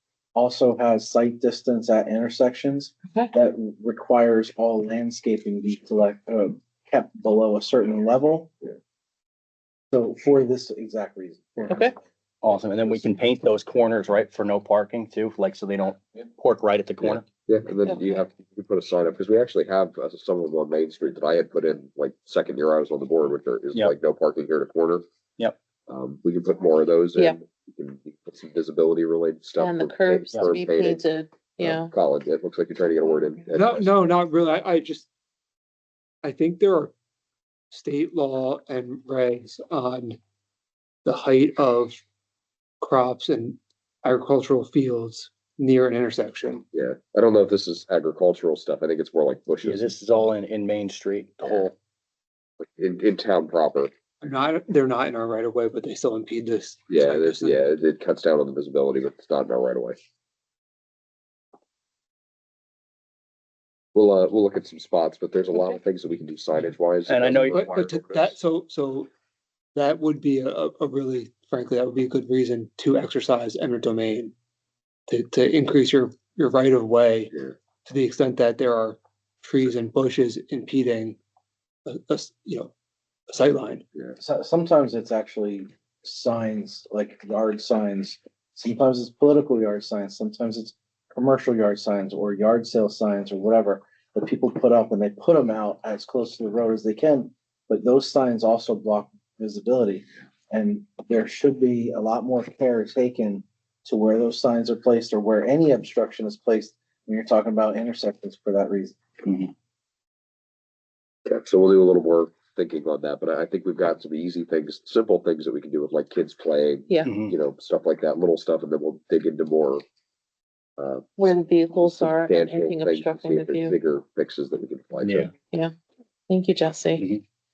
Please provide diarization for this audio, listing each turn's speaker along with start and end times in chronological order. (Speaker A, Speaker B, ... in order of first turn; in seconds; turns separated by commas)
Speaker A: 0.3-8.7, Speaker A: 9.9-12.0, Speaker B: 11.7-11.9, Speaker C: 12.4-17.2, Speaker D: 17.0-25.1, Speaker D: 25.9-31.0, Speaker B: 29.6-31.9, Speaker D: 31.6-33.9, Speaker E: 33.5-35.1, Speaker E: 36.2-36.9, Speaker E: 37.7-40.2, Speaker E: 41.0-42.0, Speaker E: 42.8-46.6, Speaker D: 46.7-49.9, Speaker C: 49.6-51.7, Speaker D: 52.6-53.9, Speaker E: 54.2-57.6, Speaker D: 56.9-60.0, Speaker D: 63.9-68.3, Speaker C: 67.0-67.7, Speaker E: 67.5-69.1, Speaker E: 69.7-74.3, Speaker E: 75.1-77.3, Speaker D: 77.3-77.6, Speaker E: 77.8-81.2, Speaker E: 81.8-82.7, Speaker E: 83.3-83.8, Speaker A: 84.2-109.0, Speaker C: 109.2-109.5, Speaker D: 111.2-119.8, Speaker C: 117.0-117.3, Speaker D: 120.8-121.1, Speaker B: 121.2-123.8, Speaker D: 121.8-125.3, Speaker C: 125.0-125.3, Speaker B: 126.3-127.0